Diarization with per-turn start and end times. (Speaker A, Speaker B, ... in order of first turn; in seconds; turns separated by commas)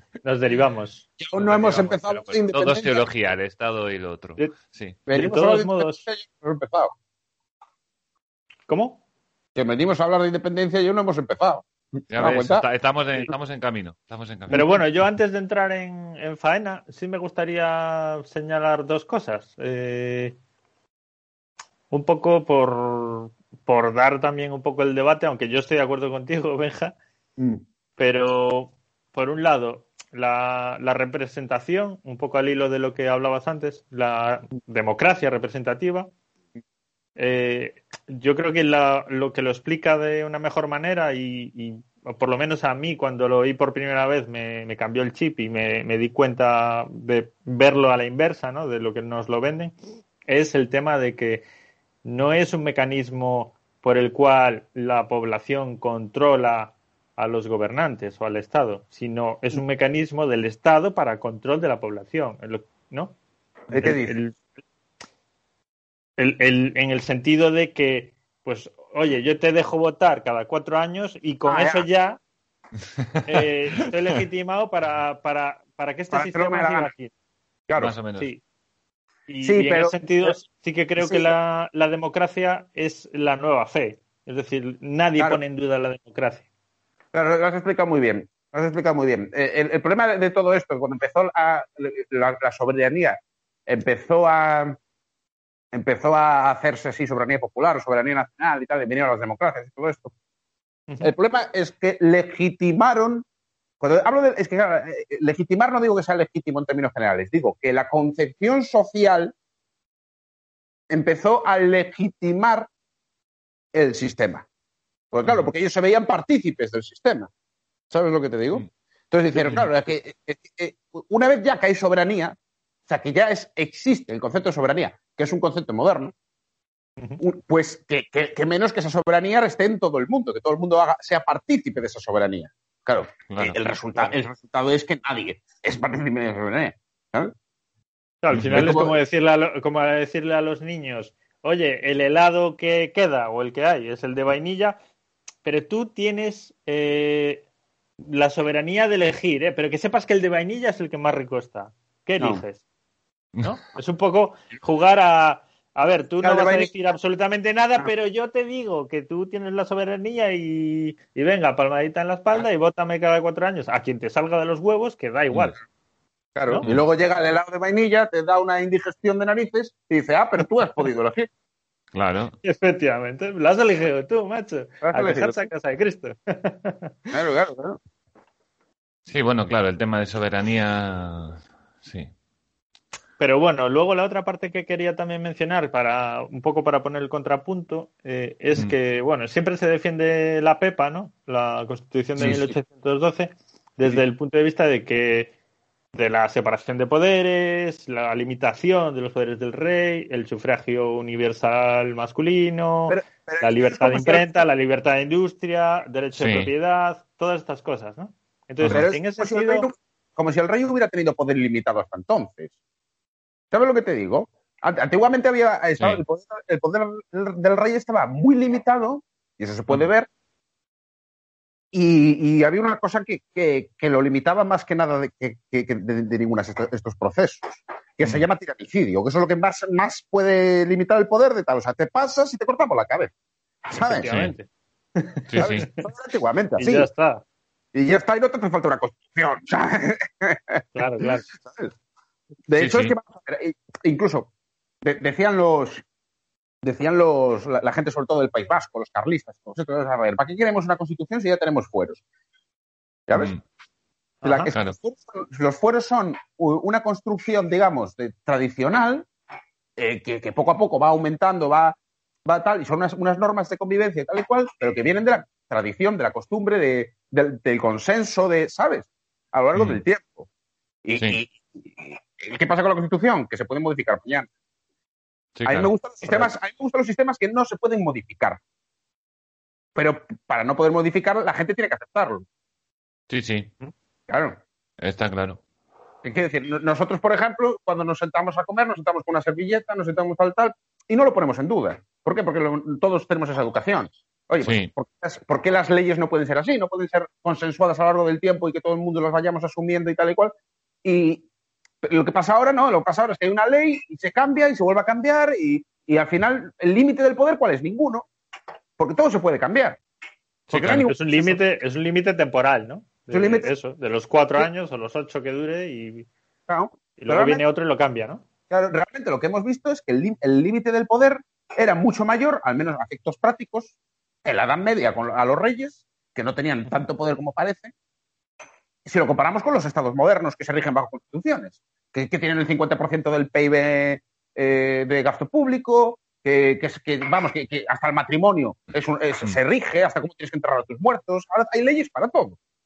Speaker A: 0.2-1.1, Speaker B: 1.2-3.0, Speaker C: 1.4-5.0, Speaker B: 5.1-6.9, Speaker A: 5.1-6.0, Speaker A: 8.7-9.0, Speaker B: 9.5-12.6, Speaker C: 12.1-14.7, Speaker A: 14.5-20.4, Speaker A: 21.9-26.9, Speaker A: 28.0-36.1, Speaker A: 37.2-49.7, Speaker A: 50.3-51.4, Speaker A: 52.0-63.1, Speaker B: 63.7-64.2, Speaker A: 63.8-64.4, Speaker A: 66.2-72.2, Speaker B: 71.5-71.8, Speaker A: 73.2-77.1, Speaker B: 76.1-76.9, Speaker B: 77.7-77.9, Speaker C: 77.8-78.3, Speaker A: 78.2-78.4, Speaker A: 79.3-86.5, Speaker B: 79.4-80.4, Speaker B: 81.0-81.3, Speaker B: 87.1-94.8, Speaker B: 95.7-100.1, Speaker B: 101.0-103.2, Speaker B: 103.8-109.3, Speaker B: 110.9-112.7, Speaker B: 113.7-114.5, Speaker B: 115.1-117.3, Speaker B: 117.9-122.4, Speaker B: 122.9-126.1, Speaker B: 127.2-137.3, Speaker C: 133.3-134.2, Speaker A: 138.2-144.8, Speaker C: 138.3-138.7, Speaker B: 138.5-139.0, Speaker A: 145.4-147.4, Speaker A: 148.0-152.6, Speaker A: 153.4-165.5, Speaker B: 156.2-156.7, Speaker B: 166.4-171.3, Speaker C: 171.9-172.3, Speaker A: 172.4-176.9, Speaker B: 174.8-175.4, Speaker B: 177.1-177.8, Speaker C: 179.1-182.1, Speaker A: 183.2-195.3, Speaker C: 192.2-192.4, Speaker A: 195.9-209.7, Speaker B: 202.9-204.4, Speaker C: 206.2-206.5, Speaker B: 208.7-212.5, Speaker B: 213.5-220.1, Speaker B: 221.7-233.1, Speaker B: 233.7-234.1, Speaker A: 233.7-235.8, Speaker C: 234.1-234.3, Speaker C: 235.3-235.6, Speaker B: 235.4-236.9, Speaker A: 236.6-237.2, Speaker B: 237.7-241.7, Speaker A: 240.7-241.2, Speaker B: 242.5-244.3, Speaker C: 242.6-242.9, Speaker B: 244.8-245.8, Speaker B: 246.6-252.0, Speaker B: 253.1-253.3, Speaker C: 253.1-253.4, Speaker A: 254.2-254.5, Speaker B: 254.2-259.1, Speaker C: 254.5-254.8, Speaker B: 259.8-270.3, Speaker C: 269.5-269.8, Speaker B: 270.8-274.3, Speaker C: 275.4-276.3, Speaker B: 275.4-278.4, Speaker B: 279.7-282.2, Speaker C: 283.1-283.5, Speaker B: 284.1-284.4, Speaker C: 284.8-285.4, Speaker B: 286.0-301.2, Speaker C: 294.4-294.7, Speaker B: 301.8-308.1, Speaker B: 308.8-309.8, Speaker C: 310.5-310.8, Speaker B: 310.5-311.4, Speaker A: 310.5-316.1, Speaker B: 313.1-313.5, Speaker B: 316.5-317.4, Speaker A: 317.0-318.2, Speaker B: 318.5-323.7, Speaker B: 324.2-327.7, Speaker B: 328.9-342.4